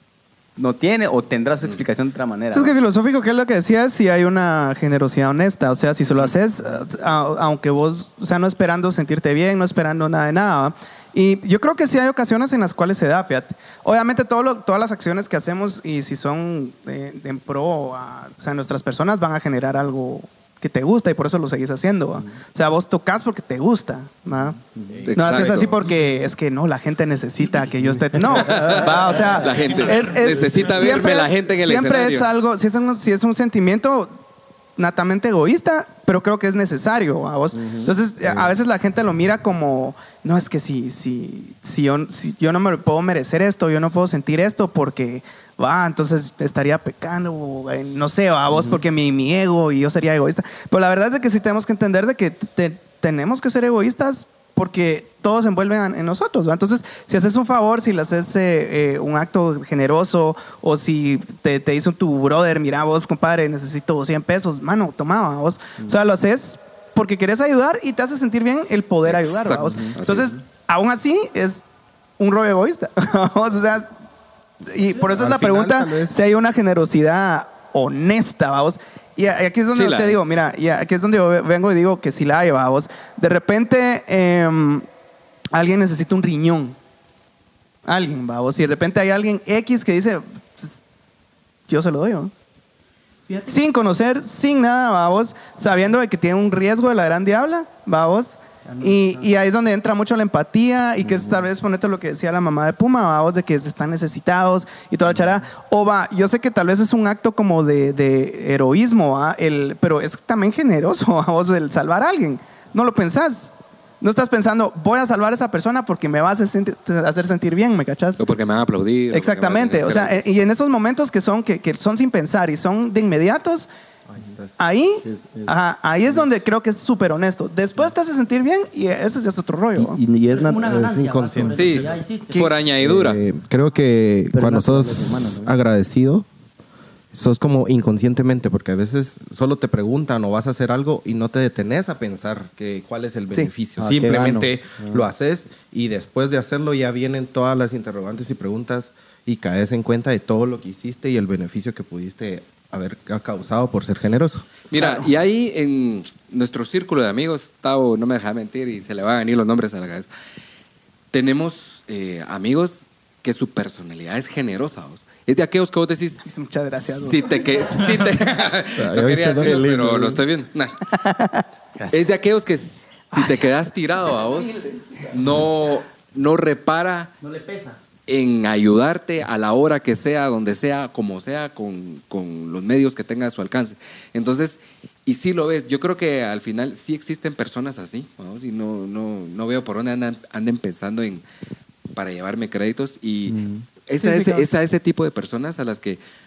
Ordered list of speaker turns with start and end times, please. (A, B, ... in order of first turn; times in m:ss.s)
0:00.6-0:02.7 A
0:02.5-0:24.6 B
0:24.8-0:25.0 C
0:25.0-0:25.7 D
0:25.1-0:34.1 B
0:28.2-0:29.5 C
0:28.4-0:32.3 D
0:29.1-0:29.9 E
0:34.8-1:11.6 B
0:37.5-0:38.5 C
1:09.0-1:10.4 D
1:12.2-1:13.9 B
1:14.7-1:24.9 B
1:15.1-1:16.2 F
1:19.7-1:20.2 D
1:25.5-1:26.8 B
1:27.9-1:30.8 B
1:31.7-1:32.3 B
1:33.3-1:33.6 E
1:33.5-1:58.2 B
1:38.6-1:39.3 E
1:41.0-1:41.5 C
1:58.2-2:00.2 D
1:59.1-2:03.7 B
2:04.2-2:04.6 F
2:04.6-2:10.0 B
2:05.0-2:05.6 C
2:09.8-2:11.7 C
2:10.3-2:12.5 E
2:10.7-2:11.9 F
2:11.5-2:13.2 D
2:12.8-2:16.3 F
2:14.3-2:15.6 C
2:17.1-2:34.6 F
2:23.8-2:25.1 C
2:34.7-2:40.1 D
2:34.8-2:35.1 B
2:41.1-2:46.2 D
2:46.2-2:47.4 B
2:46.8-2:50.8 D
2:47.5-2:47.9 E
2:48.8-2:50.2 F
2:51.0-2:51.4 B
2:51.8-2:52.1 A
2:51.9-2:57.1 D
2:53.2-2:53.4 B
2:54.2-2:54.7 B
2:57.2-2:57.8 E
2:58.1-3:11.2 D
3:11.9-3:16.0 D
3:13.3-3:13.6 C
3:14.0-3:14.5 B